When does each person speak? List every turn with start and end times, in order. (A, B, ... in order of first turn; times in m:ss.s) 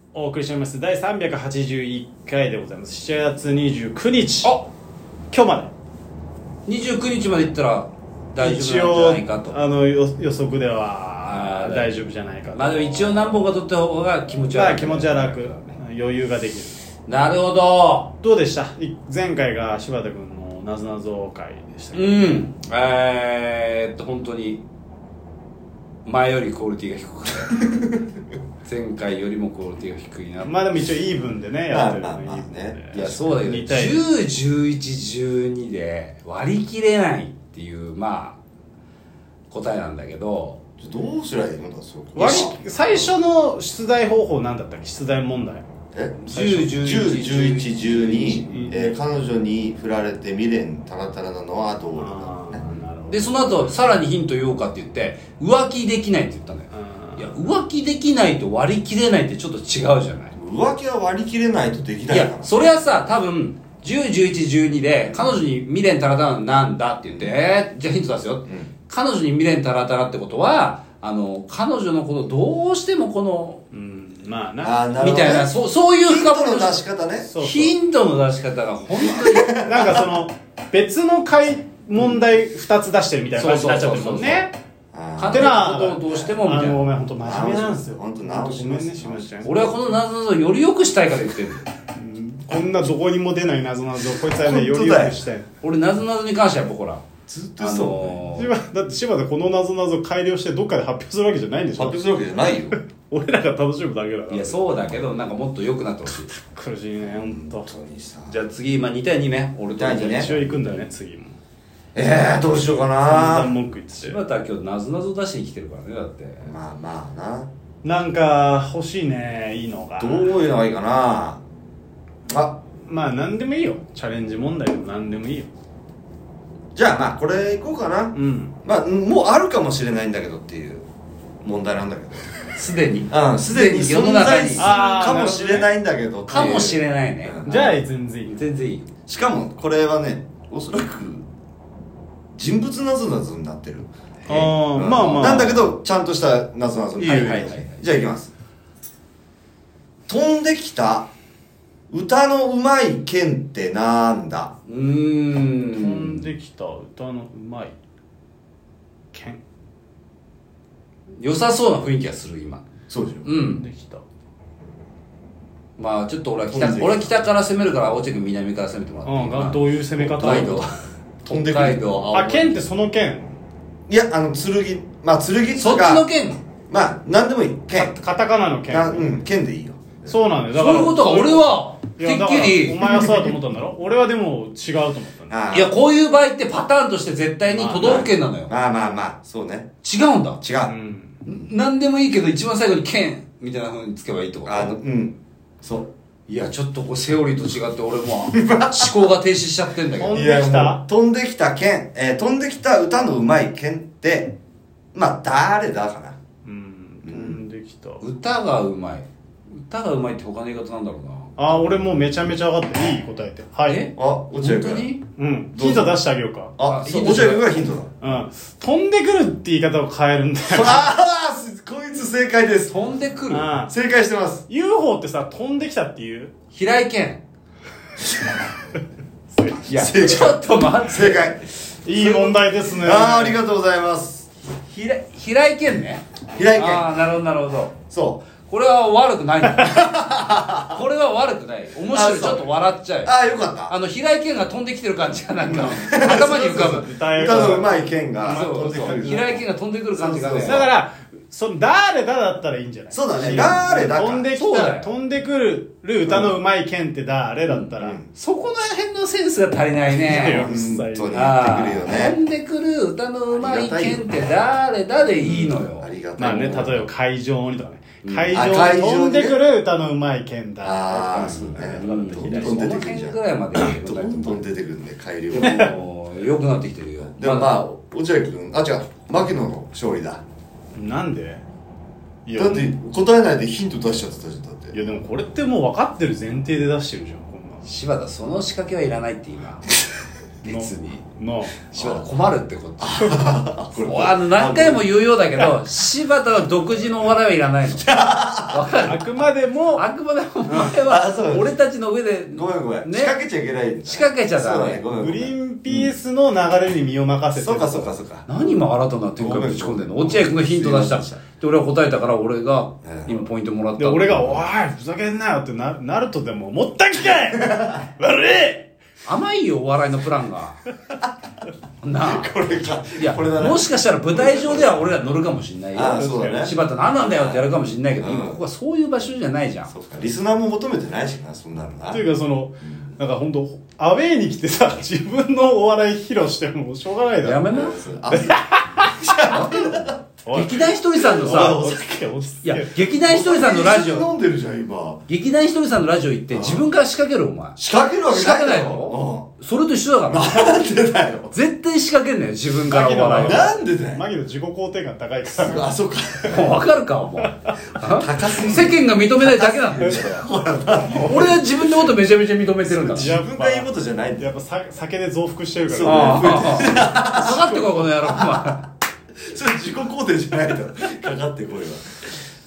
0:00.1-0:04.6 A
0:05.3-0:05.7 A
0:06.6-0:09.6 B
0:08.4-0:13.4 A
0:11.2-0:15.7 B
0:14.5-0:16.8 A
0:17.1-0:18.1 B
0:18.2-0:22.4 A
0:21.9-0:24.6 B
0:26.0-0:27.7 B
0:28.6-0:30.8 B
0:30.4-0:34.0 A
0:31.7-0:33.4 C
0:32.9-0:38.4 B
0:39.5-0:40.6 B
0:40.8-0:43.0 C
0:42.1-0:45.6 A
0:42.2-0:42.5 B
0:45.9-0:52.6 C
0:46.2-0:48.7 B
0:46.4-0:46.7 A
0:48.5-0:48.9 A
0:52.0-0:53.7 A
0:53.1-1:00.3 B
0:56.7-0:57.4 A
1:00.3-1:02.7 C
1:02.1-1:13.6 B
1:13.7-1:14.9 A
1:14.6-1:17.3 C
1:15.0-1:16.8 B
1:17.3-1:17.7 A
1:17.4-1:19.6 B
1:19.0-1:20.0 C
1:19.5-1:24.5 A
1:22.0-1:22.2 B
1:23.4-1:24.5 B
1:24.9-1:26.2 C
1:25.2-1:26.9 B
1:25.3-1:29.7 A
1:27.2-1:29.3 C
1:29.4-1:31.7 B
1:31.9-1:35.5 A
1:34.3-1:35.2 C
1:35.6-1:37.0 B
1:37.3-1:38.2 C
1:37.6-1:38.5 B
1:38.3-1:42.0 A
1:41.8-1:42.8 C
1:43.1-1:44.7 A
1:44.3-1:46.3 B
1:46.3-1:47.7 A
1:47.1-1:48.4 C
1:48.3-1:50.9 B
1:49.8-1:50.3 C
1:50.0-1:51.4 A
1:51.9-1:53.5 C
1:53.0-1:54.2 A
1:54.0-1:56.5 B
1:56.4-1:57.5 C
1:57.8-2:00.3 A
2:00.0-2:01.4 C
2:02.3-2:02.6 C
2:02.8-2:05.5 A
2:06.7-2:10.9 C
2:08.1-2:08.5 A
2:11.4-2:12.3 C
2:12.5-2:15.2 B
2:13.1-2:17.7 C
2:14.6-2:15.7 A
2:16.3-2:18.9 B
2:17.4-2:18.4 A
2:19.1-2:21.3 C
2:22.3-2:28.3 C
2:24.3-2:25.6 A
2:24.9-2:25.6 B
2:27.0-2:27.5 A
2:27.0-2:27.8 B
2:30.1-2:31.1 C
2:31.9-2:34.5 C
2:34.6-2:36.2 B
2:35.7-2:37.7 A
2:39.1-2:39.4 A
2:41.2-2:42.6 B
2:42.9-2:43.2 C
2:43.2-2:43.6 B
2:43.4-2:44.0 A
2:45.8-2:50.7 B
2:46.5-2:47.1 C
2:49.0-2:50.7 A
2:50.2-2:50.6 C
2:51.2-2:52.1 B
2:51.2-2:52.6 C
2:52.1-2:53.4 A
2:53.9-2:56.1 C
2:55.6-2:56.4 B
2:56.7-2:58.0 C
2:57.8-2:59.2 A
2:58.7-3:00.3 C
3:00.1-3:05.4 A
3:00.5-3:03.3 B
3:05.3-3:05.7 C
3:05.5-3:08.5 B
3:07.5-3:08.0 A
3:07.8-3:09.7 C
3:09.8-3:10.4 B
3:10.4-3:10.7 C
3:10.6-3:11.2 A
3:11.2-3:14.8 B
3:14.4-3:15.9 C
3:16.3-3:20.2 B
3:18.3-3:18.9 C
3:20.0-3:20.8 A
3:20.1-3:24.3 C
3:24.9-3:26.2 C
3:26.4-3:28.0 A
3:27.0-3:27.4 C
3:28.0-3:29.0 B
3:29.6-3:31.7 B
3:31.4-3:33.8 A
3:33.6-3:35.0 B
3:34.0-3:34.9 C
3:35.2-3:36.5 A
3:35.5-3:36.0 C
3:36.6-3:37.9 C
3:36.6-3:37.6 B
3:38.0-3:40.8 A
3:40.5-3:42.7 C
3:42.7-3:43.5 B
3:43.3-3:43.7 A
3:43.7-3:44.4 C
3:44.5-3:46.3 A
3:46.5-3:47.2 B
3:49.3-3:49.6 A
3:49.6-3:51.4 C
3:49.6-3:52.4 B
3:51.8-3:53.4 A
3:52.7-3:54.3 C
3:54.6-3:57.8 B
3:56.3-3:56.9 C
3:57.9-3:58.3 C
3:58.4-4:00.0 B
3:59.6-4:00.8 C
4:00.6-4:03.1 B
4:01.9-4:02.5 C
4:03.0-4:03.7 C
4:03.7-4:07.6 B
4:05.4-4:09.3 A
4:05.5-4:10.7 C
4:08.2-4:10.6 B
4:10.4-4:18.0 A
4:12.9-4:14.3 C
4:13.3-4:13.5 B
4:14.3-4:14.9 B
4:17.5-4:20.5 B
4:17.8-4:18.1 C
4:20.0-4:21.2 A
4:20.1-4:22.2 C
4:21.1-4:25.9 B
4:23.3-4:24.0 C
4:25.2-4:26.8 C
4:26.2-4:32.6 A
4:28.0-4:28.4 B
4:28.3-4:29.4 C
4:30.6-4:35.7 C
4:31.0-4:34.4 B
4:35.3-4:37.6 B
4:35.4-4:35.7 A
4:37.2-4:40.2 C
4:40.7-4:41.4 A
4:42.2-4:42.7 A
4:42.3-4:44.7 C
4:44.7-4:47.6 A
4:47.6-4:49.7 B
4:50.4-4:51.0 B
4:50.4-4:51.5 A
4:51.7-4:59.1 B
4:51.7-4:52.0 C
4:52.8-4:54.8 C
4:57.7-4:58.8 C
4:58.8-4:59.8 A
4:59.7-5:03.2 B
5:00.5-5:00.7 A
5:00.5-5:01.5 C
5:02.3-5:05.9 C
5:03.8-5:04.8 B
5:04.9-5:08.0 A
5:07.3-5:08.3 C
5:08.3-5:14.4 B
5:09.2-5:11.2 C
5:12.8-5:13.2 C
5:13.8-5:18.7 A
5:19.0-5:20.6 B
5:21.8-5:22.3 B
5:22.0-5:24.8 C
5:23.0-5:29.7 B
5:25.7-5:27.5 C
5:26.0-5:26.5 A
5:28.0-5:28.4 C
5:29.7-5:32.0 C
5:31.9-5:39.3 A
5:37.2-5:38.0 B
5:37.5-5:40.4 C
5:39.1-5:41.6 B
5:40.2-5:42.9 A
5:41.1-5:42.0 C
5:42.4-5:44.1 B
5:43.0-5:45.0 C
5:45.1-5:47.6 B
5:46.3-5:46.7 C
5:47.6-5:49.3 C
5:48.1-5:50.6 B
5:50.1-5:51.3 C
5:51.3-5:53.5 B
5:52.6-5:55.7 A
5:53.2-5:54.0 C
5:55.3-5:56.6 C
5:56.3-6:00.2 B
5:57.3-5:57.5 A
5:57.9-6:01.7 C
6:00.9-6:03.1 B
6:02.7-6:04.2 C
6:02.9-6:07.6 A
6:05.7-6:08.4 C
6:05.8-6:08.6 B
6:09.2-6:12.0 C